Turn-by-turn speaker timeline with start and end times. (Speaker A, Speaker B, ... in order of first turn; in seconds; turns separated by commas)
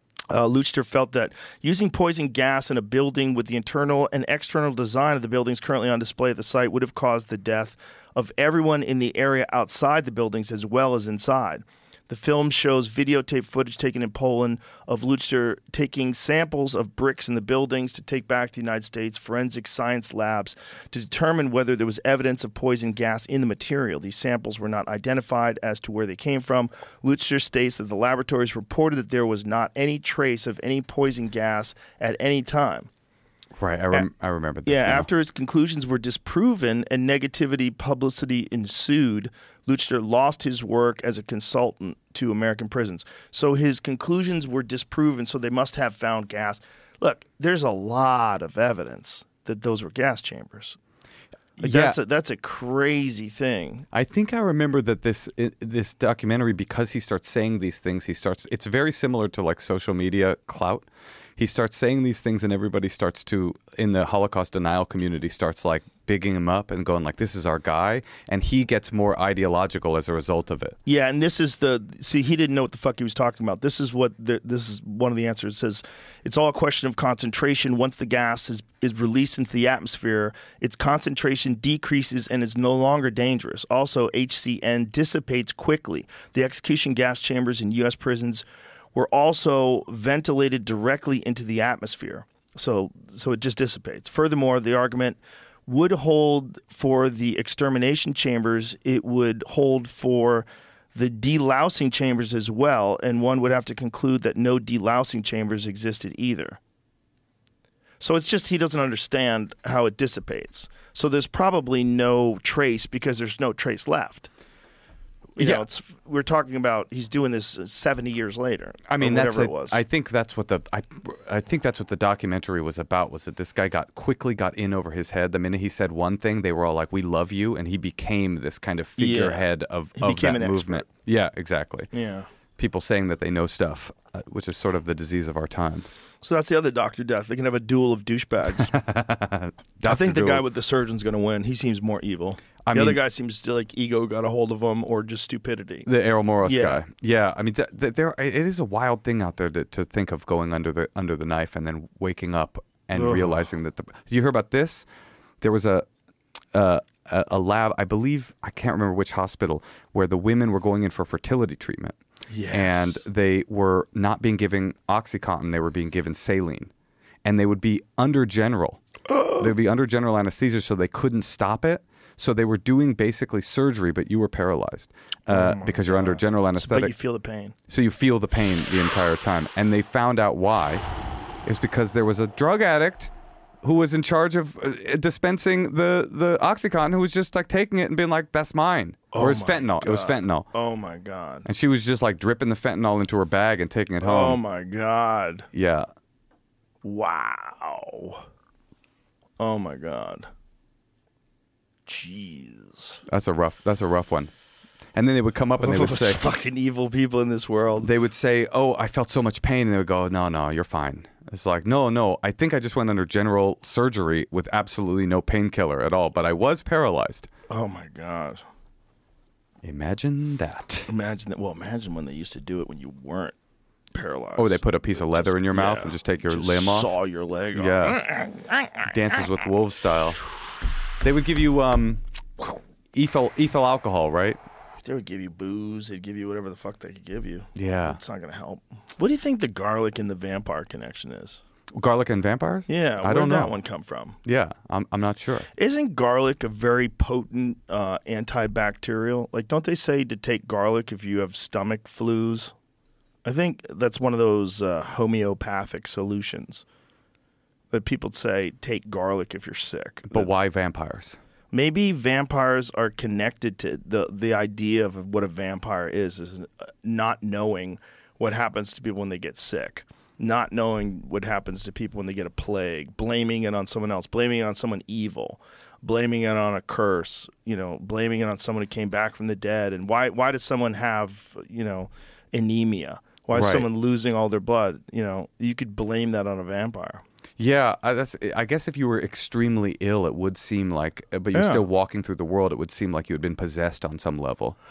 Speaker A: 0.3-32.9, Speaker B: 33.5-35.1, Speaker A: 34.6-50.8, Speaker B: 51.6-52.0, Speaker A: 51.6-53.9, Speaker B: 53.9-70.8, Speaker A: 70.8-106.6, Speaker A: 108.0-114.3, Speaker A: 115.3-119.8, Speaker B: 115.4-115.6, Speaker B: 118.9-131.9, Speaker A: 129.0-129.4, Speaker A: 129.9-130.9, Speaker A: 131.9-132.3, Speaker B: 132.6-135.9, Speaker A: 136.2-138.7, Speaker B: 138.6-140.4, Speaker A: 139.8-145.9, Speaker B: 142.7-143.0, Speaker B: 145.8-154.8, Speaker A: 146.4-146.8, Speaker A: 152.9-153.4, Speaker B: 155.4-155.9, Speaker B: 156.5-161.9, Speaker A: 162.3-163.0, Speaker B: 162.5-166.7, Speaker B: 167.2-168.8, Speaker A: 169.1-169.5, Speaker B: 169.4-176.9, Speaker A: 175.3-177.5, Speaker B: 177.7-180.8, Speaker B: 181.4-183.1, Speaker B: 183.6-190.5, Speaker A: 189.1-191.5, Speaker B: 191.4-194.4, Speaker A: 194.0-195.5, Speaker B: 195.5-195.9, Speaker A: 196.8-198.2, Speaker A: 199.4-200.3, Speaker A: 201.8-203.0, Speaker B: 203.1-204.3, Speaker B: 204.9-206.3, Speaker A: 205.6-207.9, Speaker B: 207.8-217.3, Speaker A: 217.5-218.4, Speaker B: 219.6-220.9, Speaker A: 220.9-223.3, Speaker A: 223.9-228.9, Speaker B: 224.4-226.9, Speaker B: 227.5-228.0, Speaker B: 228.9-230.2, Speaker B: 231.0-232.0, Speaker B: 232.9-234.4, Speaker A: 234.8-241.4, Speaker B: 237.5-238.0, Speaker B: 241.7-243.5, Speaker A: 242.7-244.2, Speaker B: 244.2-245.5, Speaker A: 245.5-252.5, Speaker A: 253.2-256.6, Speaker A: 257.7-260.3, Speaker B: 260.1-261.2, Speaker A: 261.5-287.0, Speaker B: 283.3-283.7, Speaker B: 287.4-294.6, Speaker A: 291.3-291.6